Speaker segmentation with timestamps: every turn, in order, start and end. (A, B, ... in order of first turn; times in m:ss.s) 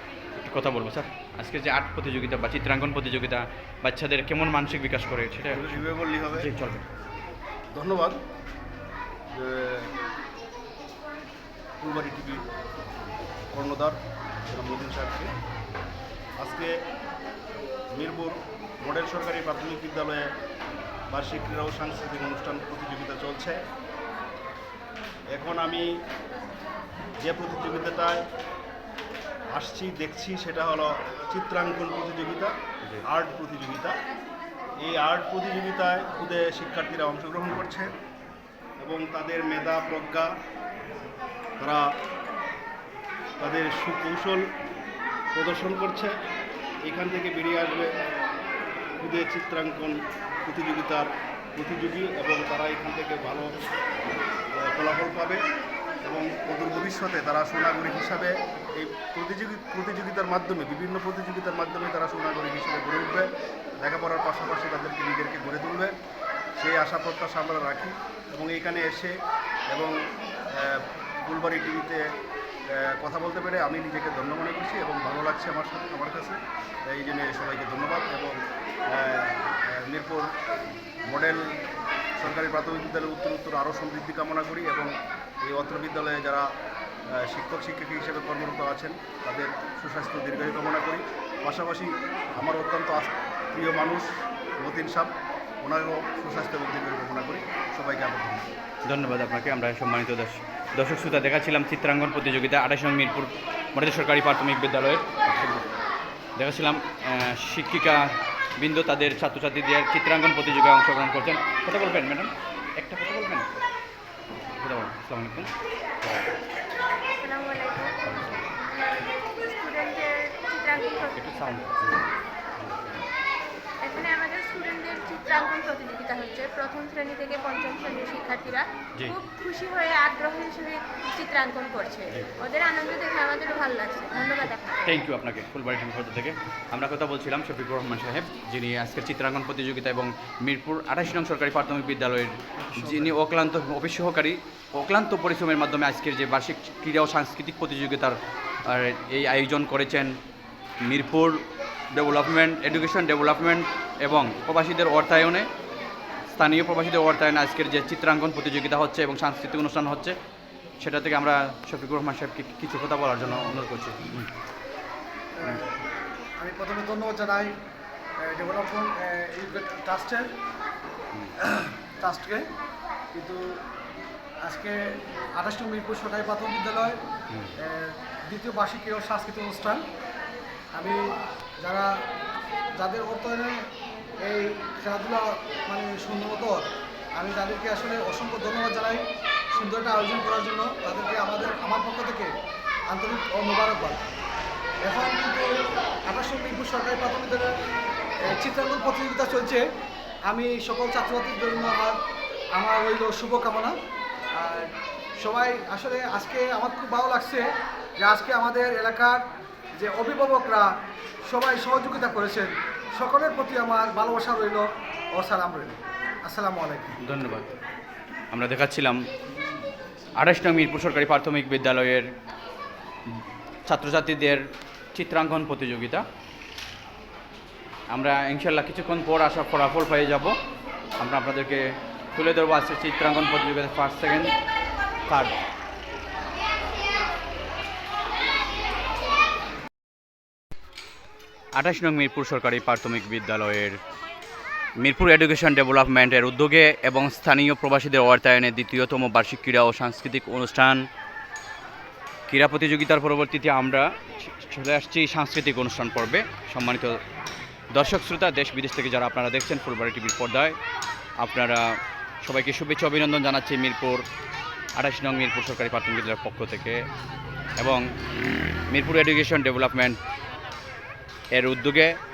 0:00.4-0:05.8 A
0:05.5-0:06.5 B
0:06.4-0:06.9 A
0:07.7-0:08.2 B
0:09.3-0:09.9 B
0:11.8-0:12.4 B
0:13.5-0:14.0 B
0:14.5-0:15.3 B
0:16.4-0:16.8 B
0:18.0-0:20.3 B
0:21.1-0:23.6 B
0:25.3-0:25.9 B
0:27.2-0:28.2 B
0:29.5-0:32.5 B
0:33.0-0:34.0 B
0:34.8-0:37.9 B
0:38.8-0:40.3 B
0:41.6-0:41.9 B
0:43.4-0:44.5 B
0:45.3-0:46.2 B
0:46.8-0:47.9 B
0:49.0-0:53.5 B
0:54.6-0:55.4 B
0:56.0-1:03.3 B
1:03.8-1:05.9 B
1:06.6-1:09.2 B
1:09.7-1:10.0 B
1:10.5-1:12.0 B
1:12.7-1:18.4 B
1:18.9-1:20.3 B
1:21.1-1:21.6 B
1:22.2-1:24.9 B
1:25.4-1:26.5 B
1:27.1-1:38.5 B
1:38.9-1:45.7 A
1:46.4-1:53.5 A
1:54.6-1:55.5 A
1:56.0-1:56.3 A
1:57.0-2:01.7 C
1:58.0-1:58.5 A
2:01.2-2:02.0 A
2:02.6-2:03.0 A
2:03.8-2:15.0 C
2:14.8-2:30.1 A
2:22.6-2:23.1 D
2:30.9-2:31.4 A
2:31.9-2:35.5 A
2:36.3-2:40.2 A
2:40.8-2:44.3 A
2:45.4-2:45.7 D
2:46.4-2:47.5 D
2:48.3-2:50.3 D
2:51.4-2:52.5 D
2:53.1-2:53.6 D
2:54.5-2:54.8 D
2:55.4-2:57.0 D
2:57.6-2:59.8 D
3:01.6-3:01.9 D
3:02.8-3:03.6 D
3:04.2-3:09.0 D
3:09.5-3:12.3 D
3:12.9-3:14.0 D
3:14.8-3:15.5 D
3:16.1-3:17.5 D
3:18.3-3:19.6 D
3:20.3-3:22.0 D
3:22.6-3:23.7 D
3:24.4-3:27.4 D
3:28.0-3:29.2 D
3:29.8-3:30.6 D
3:31.3-3:34.6 D
3:35.2-3:37.0 D
3:37.0-3:37.5 A
3:38.3-3:39.0 A
3:40.2-3:42.1 A
3:43.7-3:44.4 A
3:45.0-3:46.0 A
3:47.9-3:50.4 A
3:51.0-3:54.3 A
3:55.1-3:55.4 A
4:01.6-4:03.8 A
4:04.8-4:10.8 A
4:12.3-4:17.0 A
4:17.7-4:20.6 A
4:21.2-4:21.6 A
4:22.2-4:24.0 A
4:24.8-4:26.8 A
4:27.6-4:27.8 A
4:28.7-4:30.0 A
4:31.4-4:32.0 A